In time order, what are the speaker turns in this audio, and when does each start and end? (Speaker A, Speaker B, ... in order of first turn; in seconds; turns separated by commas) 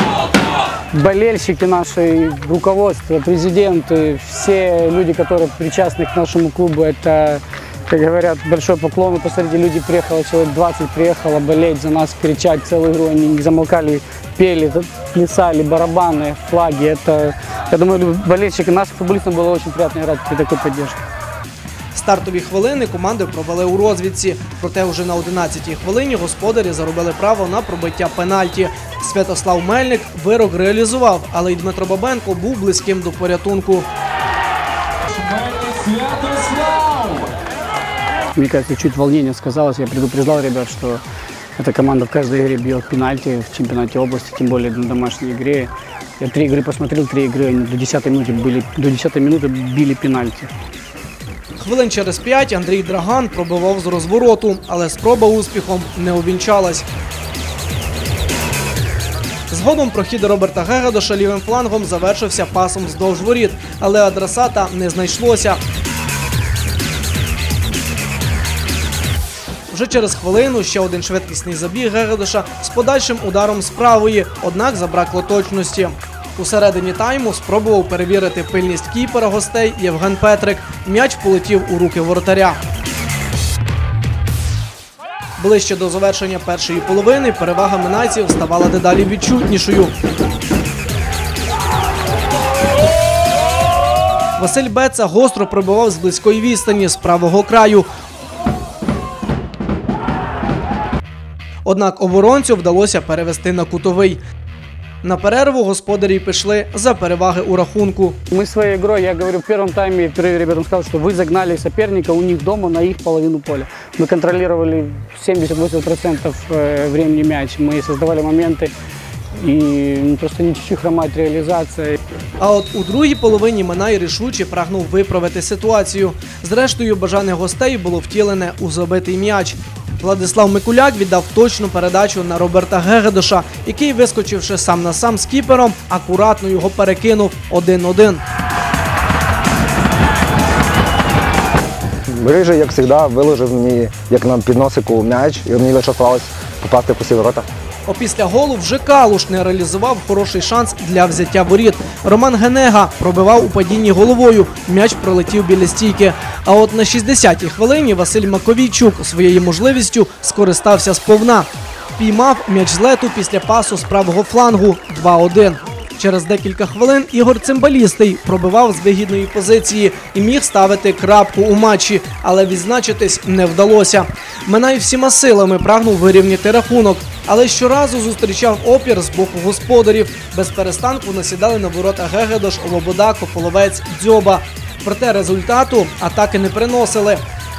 Speaker A: 0.9-21.0, Speaker B: 21.9-33.9, Speaker A: 35.3-37.1, Speaker A: 38.4-41.0, Speaker A: 41.6-50.5, Speaker B: 51.6-56.9, Speaker B: 59.5-65.6, Speaker B: 69.7-82.6, Speaker B: 85.4-89.9, Speaker B: 94.4-97.9, Speaker B: 101.7-104.2, Speaker B: 105.0-108.2, Speaker A: 108.3-118.7, Speaker A: 119.4-122.0, Speaker B: 122.4-138.2, Speaker C: 142.2-147.5, Speaker B: 147.9-187.2